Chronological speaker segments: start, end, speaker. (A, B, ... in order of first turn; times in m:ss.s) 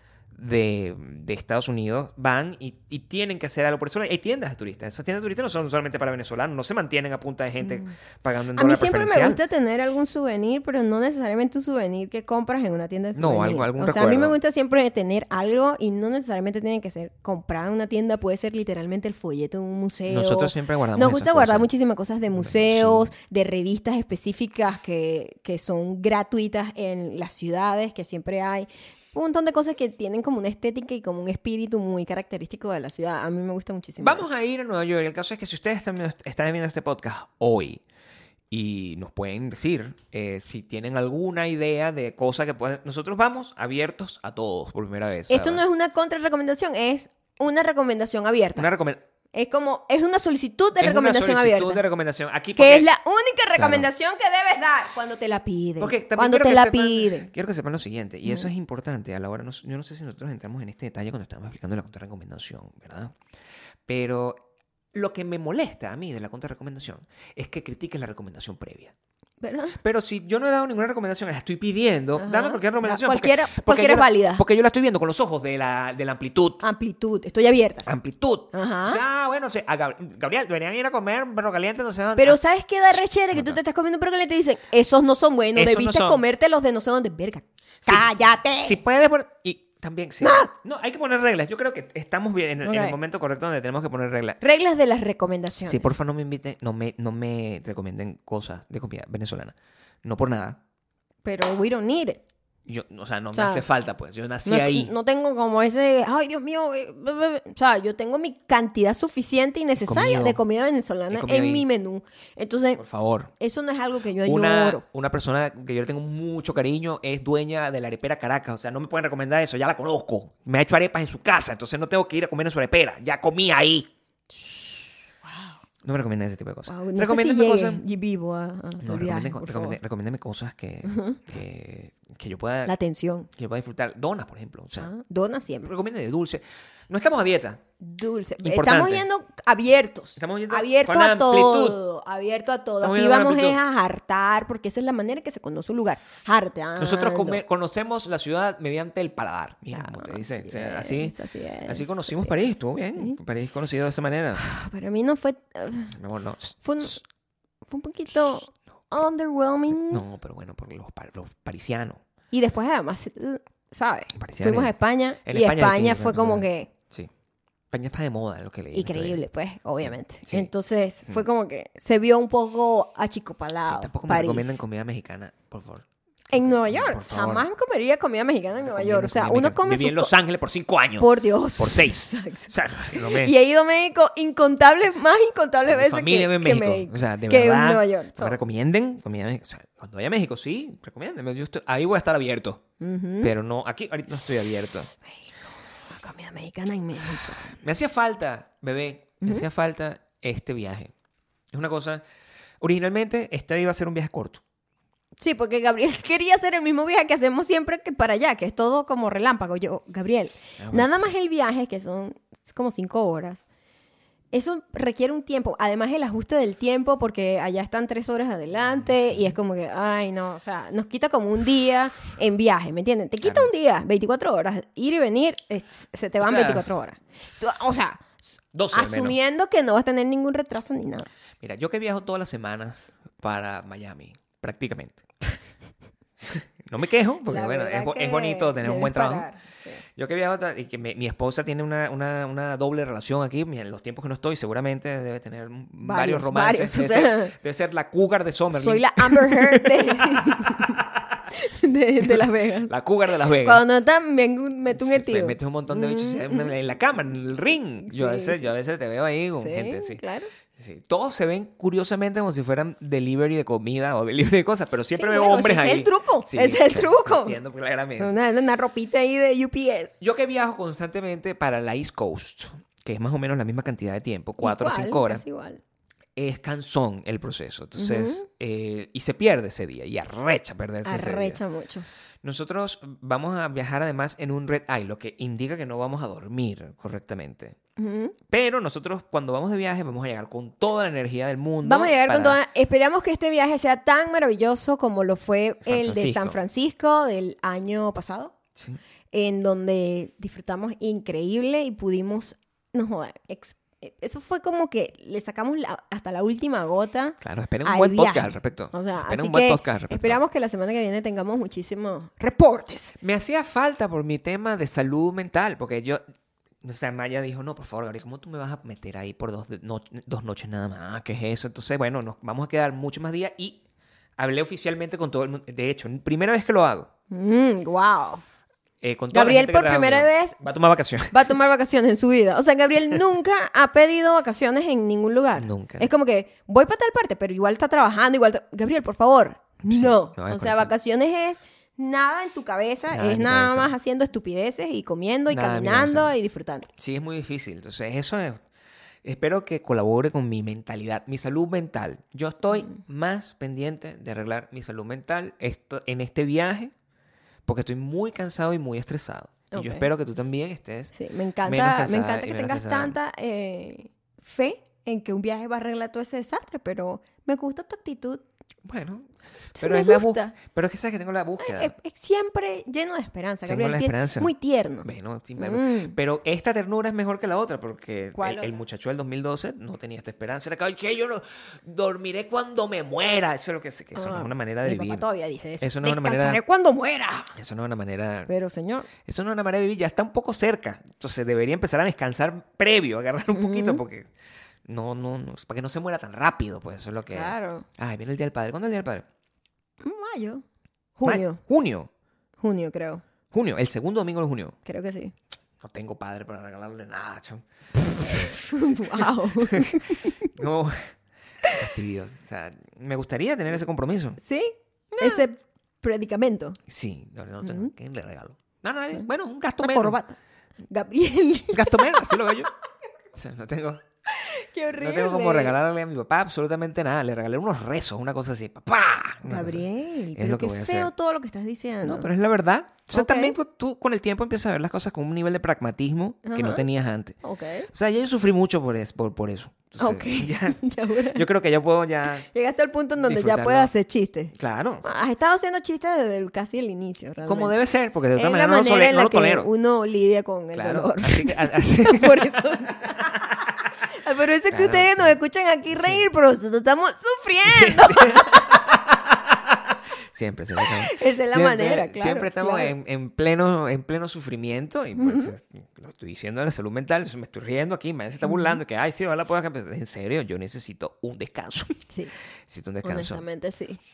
0:00.3-0:09.4 A
0:07.6-0:07.9 B
0:08.6-0:34.3 B
0:13.2-0:14.4 A
0:20.1-0:21.7 A
0:22.3-0:23.1 A
0:34.0-0:37.8 A
0:38.5-0:45.6 A
0:45.3-0:48.7 B
0:48.6-0:49.0 A
0:49.3-0:51.8 B
0:50.8-0:52.9 A
0:52.6-0:57.3 B
0:53.6-0:53.9 A
0:55.8-1:03.2 A
1:03.9-1:04.4 A
1:04.9-1:08.9 A
1:09.4-1:09.8 B
1:09.8-1:16.6 A
1:12.2-1:14.4 B
1:16.6-1:17.9 B
1:17.9-1:22.4 A
1:18.5-1:19.0 B
1:22.2-1:28.8 B
1:23.3-1:23.6 A
1:25.6-1:26.2 A
1:27.8-1:34.4 A
1:30.2-1:30.5 B
1:32.6-1:33.0 B
1:34.4-1:36.0 B
1:35.6-1:40.6 A
1:41.2-1:42.2 B
1:42.7-1:44.9 A
1:43.3-1:43.6 B
1:44.4-1:52.8 B
1:49.8-1:50.4 A
1:51.1-1:51.7 A
1:52.8-1:53.3 A
1:53.4-1:54.8 B
1:54.2-2:03.9 A
2:04.3-2:05.6 B
2:05.8-2:07.8 A
2:06.7-2:09.8 B
2:08.8-2:12.7 A
2:10.9-2:11.2 B
2:12.7-2:13.3 B
2:13.4-2:14.9 A
2:14.8-2:15.7 B
2:15.6-2:17.6 A
2:17.8-2:27.4 B
2:18.4-2:19.1 A
2:20.2-2:21.8 A
2:22.8-2:23.6 A
2:26.8-2:34.4 A
2:29.7-2:33.2 B
2:34.4-2:36.0 B
2:35.9-2:37.0 A
2:36.6-2:37.0 B
2:37.7-2:40.0 B
2:39.7-2:42.0 A
2:42.3-2:46.7 B
2:44.2-2:44.7 A
2:45.2-2:47.1 A
2:47.7-2:49.2 A
2:48.7-2:54.6 B
2:49.8-2:50.5 A
2:53.6-2:57.5 A
2:56.3-3:00.1 B
2:58.6-3:03.3 A
3:01.0-3:08.4 B
3:05.6-3:12.6 A
3:12.8-3:13.3 B
3:13.2-3:14.9 A
3:15.8-3:17.6 B
3:17.6-3:20.9 A
3:21.5-3:22.0 A
3:22.6-3:24.4 A
3:25.2-3:33.4 B
3:30.6-3:31.1 A
3:34.3-3:51.1 B
3:38.8-3:39.3 A
3:43.2-3:43.5 A
3:46.2-3:46.7 A
3:48.5-3:49.2 A
3:51.4-3:55.0 A
3:56.2-3:59.3 A
3:57.3-3:59.8 B
4:00.0-4:11.3 A
4:05.8-4:07.3 B
4:08.5-4:10.8 B
4:11.3-4:12.7 B
4:12.0-4:13.6 A
4:13.3-4:16.5 B
4:14.7-4:20.0 A
4:17.8-4:18.5 B
4:19.4-4:20.3 B
4:20.6-4:28.1 A
4:24.9-4:27.4 B
4:28.0-4:30.0 B
4:30.0-4:35.2 A
4:34.4-4:35.6 B
4:36.2-4:41.4 A
4:37.8-4:38.2 B
4:40.8-4:41.9 B
4:42.2-4:47.6 A
4:47.8-4:48.2 B
4:48.3-4:52.4 A
4:51.6-4:58.3 B
4:55.6-4:56.4 A
4:59.1-5:13.0 B
5:07.2-5:10.2 A
5:13.0-5:16.0 A
5:16.6-5:23.6 A
5:24.2-5:26.9 A
5:27.1-5:28.2 B
5:28.8-5:31.2 A
5:29.1-5:30.4 B
5:31.1-5:46.7 B
5:35.4-5:35.9 A
5:39.6-5:40.7 A
5:42.9-5:43.7 A
5:45.3-5:46.1 A
5:46.8-5:48.4 A
5:49.0-5:56.7 A
5:52.5-5:52.8 B
5:57.5-6:03.0 A
5:59.5-5:59.9 B
6:00.9-6:08.2 B
6:08.6-6:11.7 A
6:09.6-6:10.3 B
6:11.4-6:16.0 B
6:13.5-6:14.3 A
6:14.8-6:25.0 A
6:18.2-6:18.5 B
6:24.0-6:27.4 B
6:25.6-6:26.4 A
6:27.4-6:28.3 A
6:28.3-6:28.9 B
6:29.0-6:34.1 A
6:33.3-6:33.8 B
6:34.7-6:39.1 A
6:37.1-6:37.7 B
6:39.8-6:40.4 B
6:41.0-6:41.4 B
6:41.0-6:41.9 A
6:42.4-6:43.0 B
6:43.3-6:44.6 A
6:44.6-6:45.1 B
6:45.6-6:48.4 A
6:48.1-6:50.3 B
6:48.9-6:50.9 A
6:51.5-6:54.2 A
6:54.2-6:56.6 B
6:55.0-6:55.2 A
6:56.7-7:00.0 A
6:57.4-6:57.7 B
6:59.6-7:00.2 B
7:00.7-7:02.4 B
7:01.5-7:02.5 A
7:03.1-7:03.8 A
7:04.1-7:05.6 B
7:04.7-7:10.9 A
7:09.3-7:12.1 B
7:11.8-7:20.6 A
7:12.9-7:13.4 B
7:16.2-7:16.6 B
7:17.2-7:17.7 B
7:19.8-7:21.3 B
7:21.1-7:22.2 A
7:22.2-7:27.6 B
7:23.0-7:23.7 A
7:24.4-7:24.9 A
7:27.3-7:29.5 A
7:28.2-7:33.3 B
7:30.5-7:33.6 A
7:33.9-7:38.7 B
7:34.5-7:35.2 A
7:35.7-7:36.0 A
7:37.5-7:51.9 A
7:40.6-7:42.7 B
7:45.0-7:45.3 B
7:48.2-7:48.6 B
7:52.5-7:53.2 A
7:52.8-7:53.8 B